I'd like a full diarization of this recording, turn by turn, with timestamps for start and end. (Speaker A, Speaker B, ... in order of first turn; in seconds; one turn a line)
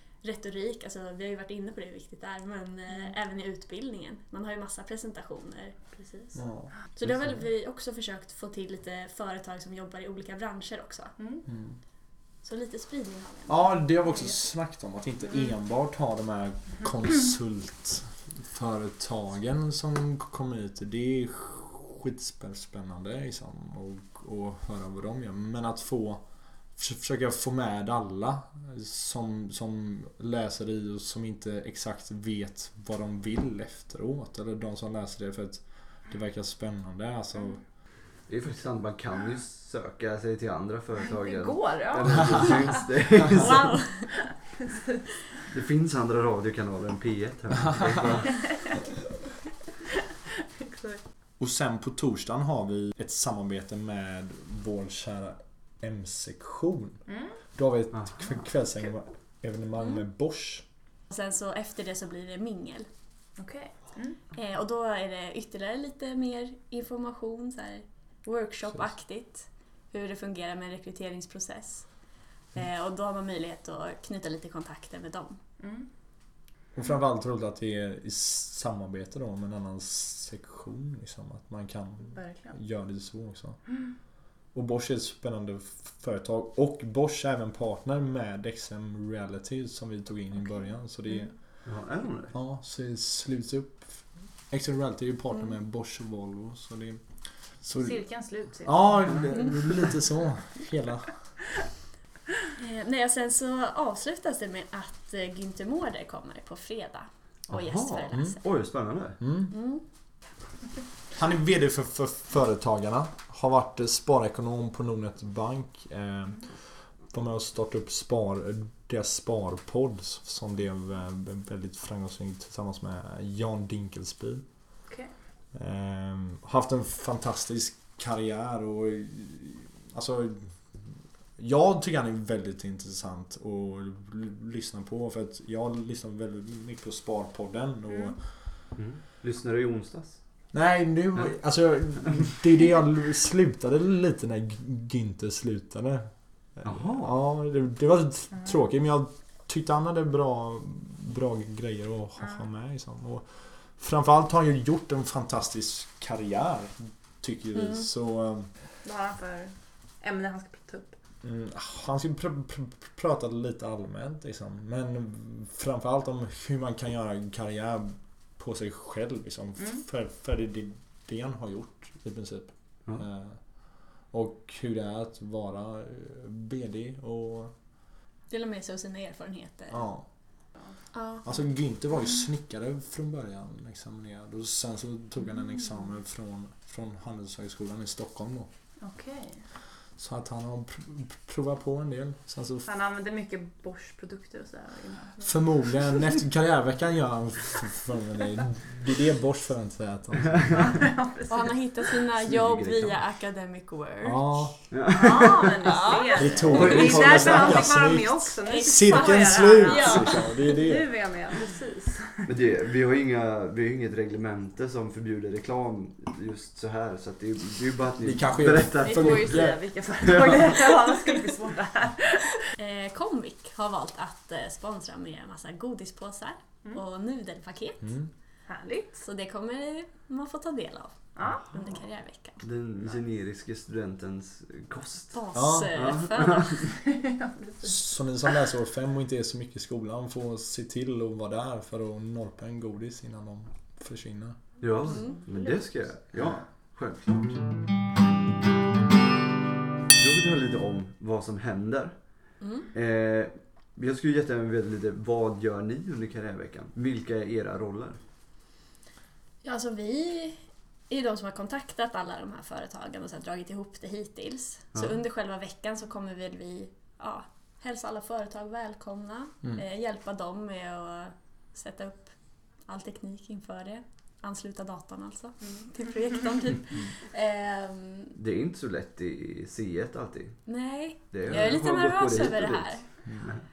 Speaker A: 0.2-6.4
Speaker B: 6.3-7.4
Speaker A: 6.9-11.1
Speaker B: 11.5-11.8
Speaker A: 12.4-13.8
Speaker B: 13.5-26.2
Speaker B: 26.8-37.6
Speaker C: 38.3-43.8
Speaker D: 41.1-42.8
Speaker A: 43.3-44.1
Speaker D: 44.6-45.0
Speaker C: 45.5-48.4
Speaker B: 47.7-48.0
Speaker D: 48.3-48.7
Speaker D: 50.6-51.0
Speaker B: 51.4-57.0
Speaker D: 57.1-57.3
Speaker B: 57.5-60.6
Speaker A: 61.1-62.9
Speaker D: 63.4-64.2
Speaker A: 64.3-71.9
Speaker A: 72.5-75.4
Speaker D: 75.6-75.9
Speaker B: 76.7-83.6
Speaker D: 82.1-82.5
Speaker B: 84.5-91.3
Speaker C: 91.6-92.3
Speaker B: 92.3-97.0
Speaker B: 97.6-98.0
Speaker D: 97.8-99.3
Speaker B: 98.6-101.1
Speaker A: 102.6-108.4
Speaker C: 107.5-109.2
Speaker B: 108.1-108.4
Speaker B: 109.2-109.5
Speaker A: 109.5-109.8
Speaker B: 111.1-116.5
Speaker B: 117.1-124.4
Speaker B: 125.5-130.9
Speaker B: 131.4-138.2
Speaker D: 137.9-138.1
Speaker C: 138.8-140.2
Speaker B: 140.5-158.5
Speaker C: 146.6-147.1
Speaker D: 152.2-152.4
Speaker A: 157.6-157.8
Speaker D: 158.8-160.9
Speaker B: 161.2-173.4
Speaker B: 174.1-177.5
Speaker A: 178.3-179.8
Speaker B: 179.7-180.1
Speaker A: 180.9-181.3
Speaker B: 181.2-188.5
Speaker D: 188.8-189.4
Speaker B: 190.0-192.7
Speaker D: 192.7-196.0
Speaker B: 195.2-200.8
Speaker D: 200.5-202.0
Speaker A: 201.3-204.5
Speaker C: 202.2-203.0
Speaker B: 204.0-204.5
Speaker C: 204.7-205.6
Speaker D: 204.9-212.2
Speaker A: 205.6-206.8
Speaker B: 206.1-210.9
Speaker C: 206.5-207.7
Speaker A: 208.4-210.6
Speaker C: 212.2-220.5
Speaker B: 218.0-219.6
Speaker D: 218.8-222.5
Speaker A: 222.6-227.9
Speaker B: 227.8-228.1
Speaker D: 228.5-229.0
Speaker A: 229.0-232.4
Speaker D: 231.2-231.5
Speaker C: 232.4-235.2
Speaker A: 235.1-236.7
Speaker B: 235.3-236.0
Speaker C: 235.7-236.7
Speaker D: 236.6-237.9
Speaker B: 237.6-244.4
Speaker C: 244.6-247.4
Speaker D: 244.9-245.5
Speaker C: 250.0-252.0
Speaker A: 252.4-252.7
Speaker C: 252.7-258.0
Speaker A: 259.4-260.4
Speaker A: 260.9-272.1
Speaker A: 272.6-278.1
Speaker C: 278.1-280.4
Speaker A: 280.5-282.9
Speaker C: 281.1-283.4